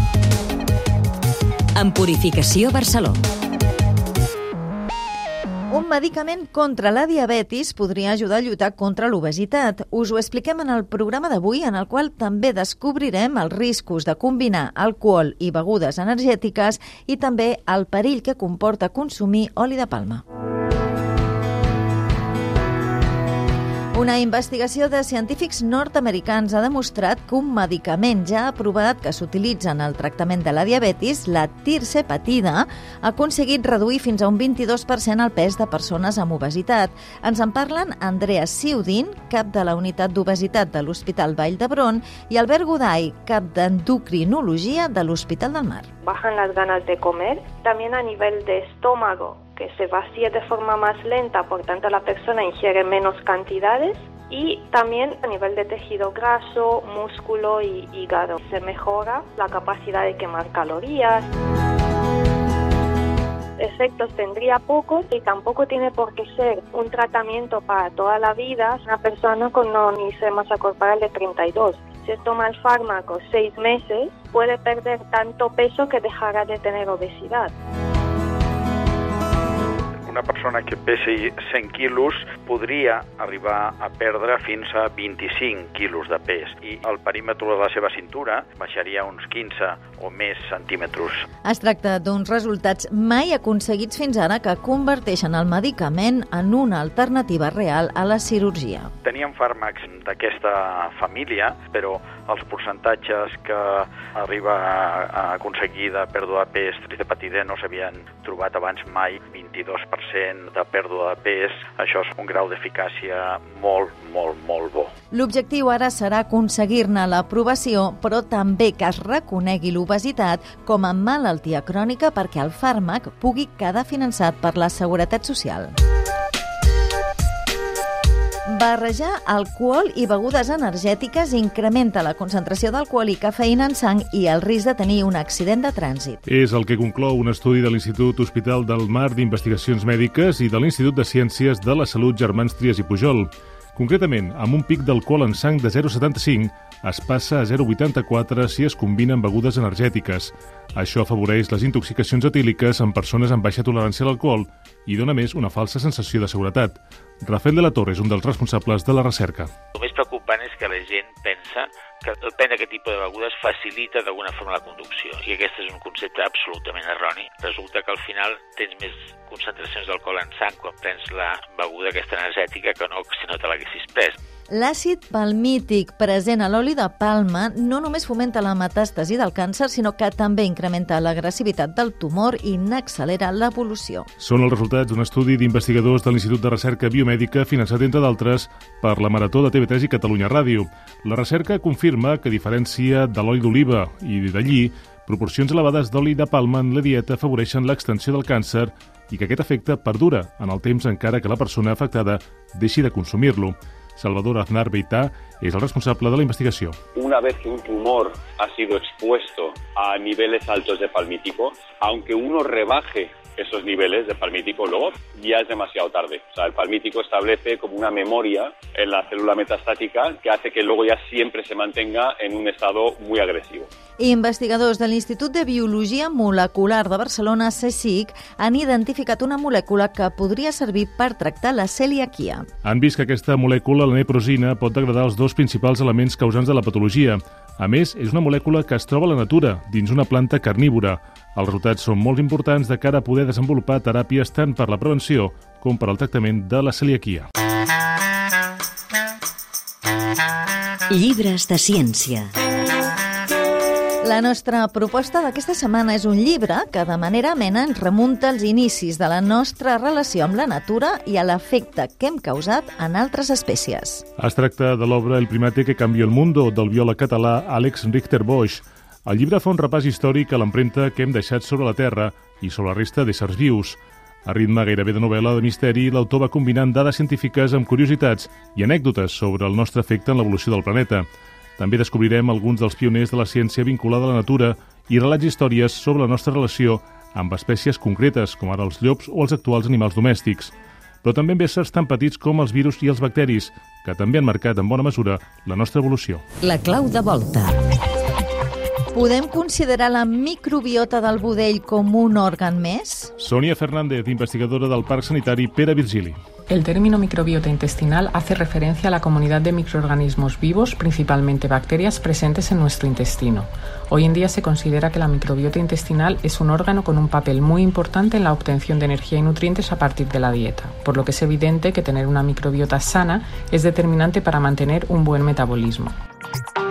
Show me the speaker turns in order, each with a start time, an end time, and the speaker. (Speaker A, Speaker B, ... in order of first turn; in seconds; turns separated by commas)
Speaker A: 1.8-3.2, Speaker B: 5.7-20.2, Speaker B: 23.9-45.9, Speaker C: 46.0-61.3, Speaker C: 63.6-77.5, Speaker D: 80.0-91.2, Speaker B: 91.5-98.9, Speaker D: 99.0-114.9, Speaker B: 115.1-125.8, Speaker B: 128.5-136.2, Speaker E: 136.3-159.5, Speaker F: 159.8-174.2, Speaker B: 174.5-184.1, Speaker E: 184.2-206.8, Speaker G: 207.0-223.7, Speaker B: 224.0-232.5, Speaker E: 232.7-247.3, Speaker A: 250.9-252.3, Speaker B: 254.0-264.0, Speaker E: 264.2-281.1, Speaker E: 281.6-290.5, Speaker E: 291.0-296.2, Speaker A: 296.4-297.6, Speaker B: 298.9-303.1, Speaker E: 303.2-306.2, Speaker H: 306.5-325.9